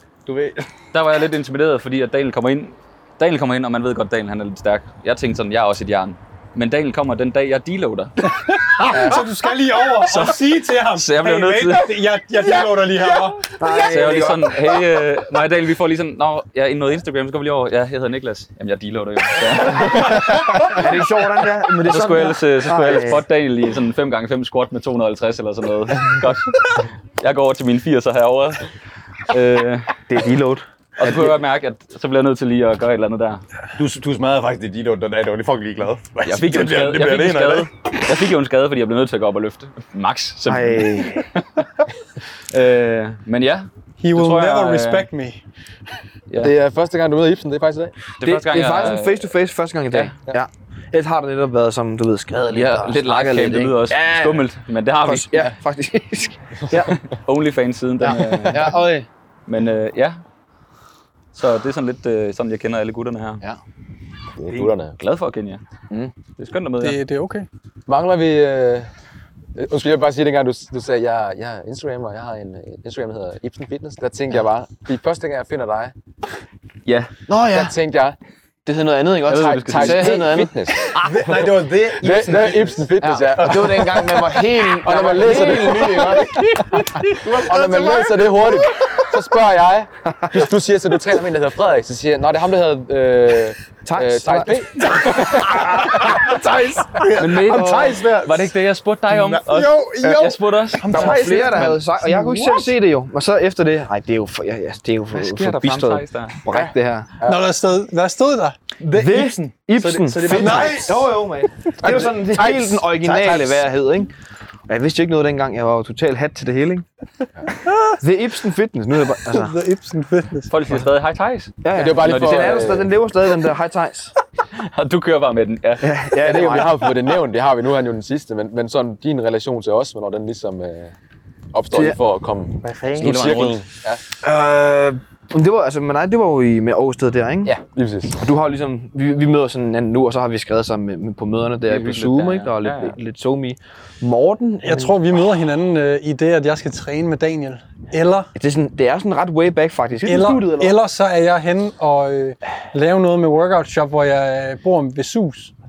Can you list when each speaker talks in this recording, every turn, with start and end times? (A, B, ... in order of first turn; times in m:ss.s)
0:00.2-0:00.6 A
0:00.9-0:08.2 B
0:08.3-0:13.4 C
0:10.0-0:11.9 B
0:13.6-0:14.6 D
0:13.7-0:20.5 B
0:20.7-0:23.2 D
0:21.8-0:28.6 B
0:29.3-0:30.0 B
0:30.1-0:31.3 D
0:31.0-0:33.4 B
0:33.8-0:37.7 A
0:36.2-0:41.6 B
0:40.4-0:41.2 D
0:42.5-0:45.1 B
0:44.0-0:45.4 C
0:46.4-0:47.9 E
0:48.2-0:49.3 B
0:48.2-0:54.4 D
0:52.5-0:55.5 B
0:55.0-0:57.0 D
0:56.7-0:58.8 B
0:58.0-0:59.1 D
0:59.5-1:00.2 B
1:01.3-1:03.4 B
1:04.4-1:05.0 E
1:04.5-1:04.7 A
1:05.0-1:05.6 B
1:06.4-1:07.0 B
1:06.8-1:07.5 C
1:07.9-1:08.9 E
1:09.5-1:15.9 E
1:16.8-1:17.1 B
1:17.3-1:17.7 D
1:17.5-1:18.2 E
1:18.6-1:20.5 D
1:19.3-1:20.2 B
1:19.3-1:24.0 E
1:20.8-1:22.9 A
1:23.0-1:26.4 D
1:23.6-1:24.0 A
1:24.7-1:36.3 E
1:27.0-1:29.0 A
1:33.8-1:34.6 D
1:34.8-1:38.5 A
1:37.2-1:41.7 B
1:37.5-1:37.9 D
1:39.1-1:42.7 A
1:40.8-1:47.1 D
1:45.1-1:46.4 B
1:46.5-1:47.4 E
1:47.2-1:48.6 C
1:48.8-1:51.0 A
1:48.9-1:54.1 D
1:50.3-1:51.1 C
1:51.8-1:53.6 E
1:54.7-1:56.8 D
1:58.0-1:59.6 D
1:59.3-2:00.5 C
2:00.5-2:02.7 B
2:01.6-2:04.1 D
2:01.7-2:02.9 E
2:04.5-2:06.6 B
2:05.8-2:06.8 D
2:06.2-2:10.9 E
2:11.5-2:14.0 E
2:12.6-2:13.4 A
2:13.0-2:13.6 B
2:14.2-2:17.6 D
2:17.4-2:18.2 E
2:18.2-2:25.0 D
2:21.6-2:23.0 B
2:24.6-2:28.3 C
2:28.3-2:30.3 D
2:30.0-2:30.8 A
2:30.0-2:35.5 C